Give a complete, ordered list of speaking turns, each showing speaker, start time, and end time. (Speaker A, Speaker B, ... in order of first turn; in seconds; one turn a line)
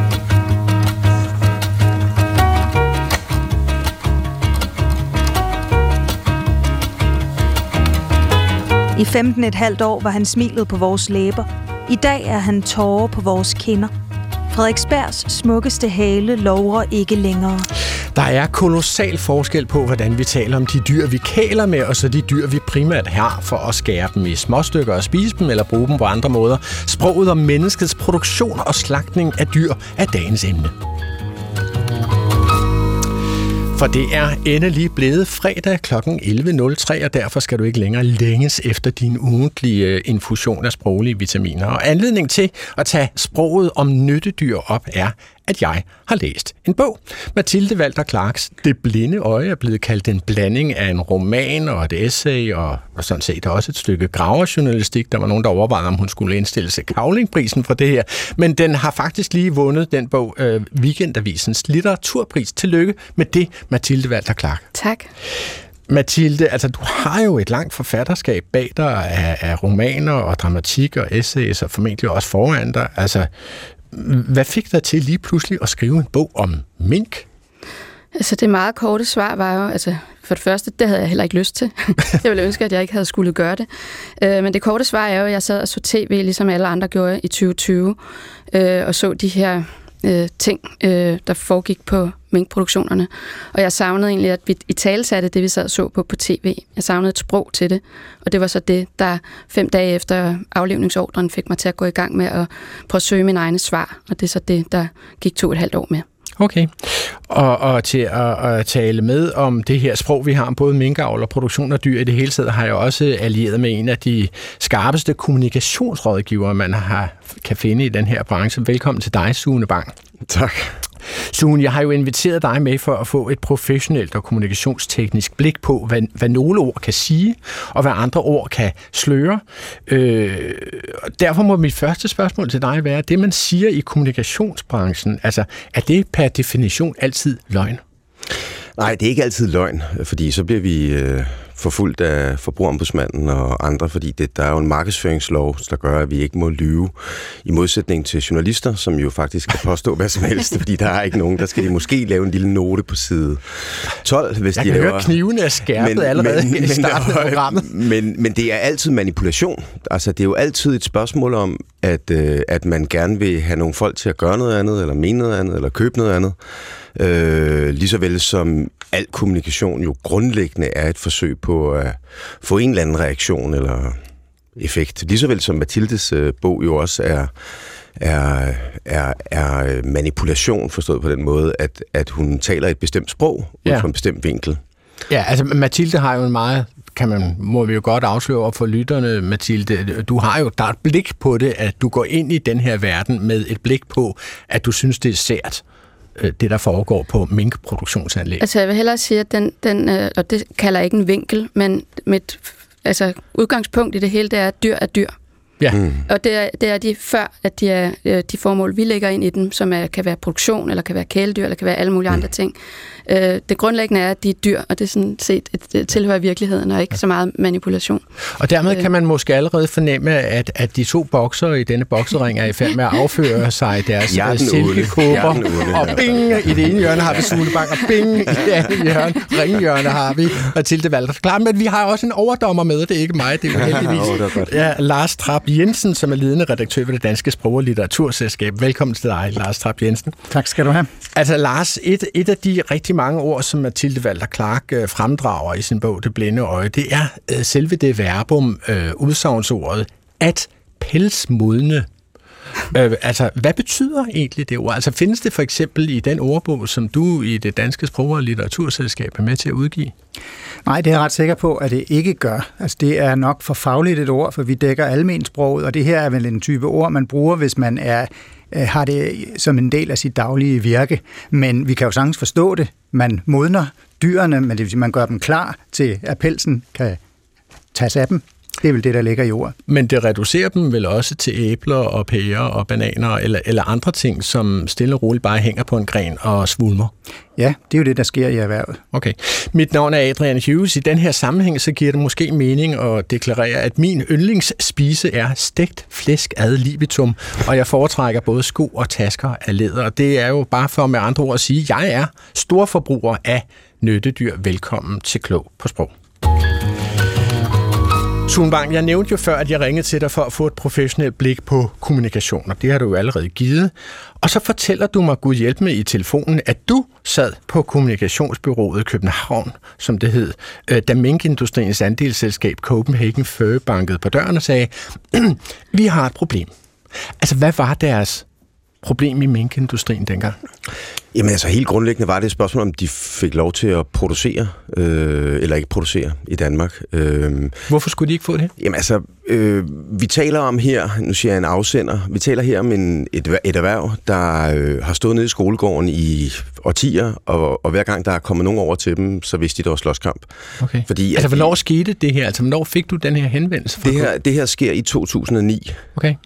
Speaker A: 8.9-13.9
Speaker A: 14.5-17.7
Speaker B: 18.1-30.7
Speaker B: 33.7-64.7
Speaker C: 64.7-65.1
Speaker B: 65.9-73.3
Speaker B: 73.9-77.2
Speaker C: 78.1-83.7
Speaker C: 84.2-88.0
Speaker C: 88.5-106.0
Speaker B: 106.4-119.9
Speaker D: 120.3-120.7
Speaker B: 121.3-137.8
Speaker D: 138.8-155.2
Speaker B: 154.6-157.7
Speaker D: 155.7-166.3
Speaker D: 166.9-174.0
Speaker D: 174.6-177.3
Speaker D: 178.0-184.6
Speaker B: 185.1-195.6
Speaker B: 196.2-198.4
Speaker C: 198.4-205.1
Speaker D: 205.7-206.0
Speaker C: 206.1-212.5
Speaker C: 213.1-218.0
Speaker B: 218.4-240.1
Speaker D: 224.1-227.6
Speaker D: 233.5-234.6
Speaker E: 240.3-240.9
Speaker B: 241.2-251.9
Speaker B: 252.7-259.9
Speaker E: 260.6-277.0
Speaker E: 277.7-279.5
Speaker B: 279.7-286.9
Speaker E: 287.4-288.8
Speaker B: 288.9-305.9
Speaker B: 308.3-326.5
Speaker B: 327.2-328.2
Speaker B: 328.8-330.4
Speaker D: 331.1-337.6
Speaker B: 337.7-338.5
Speaker D: 338.6-350.3
Speaker B: 350.6-354.1
Speaker D: 350.9-351.5
Speaker D: 353.8-355.9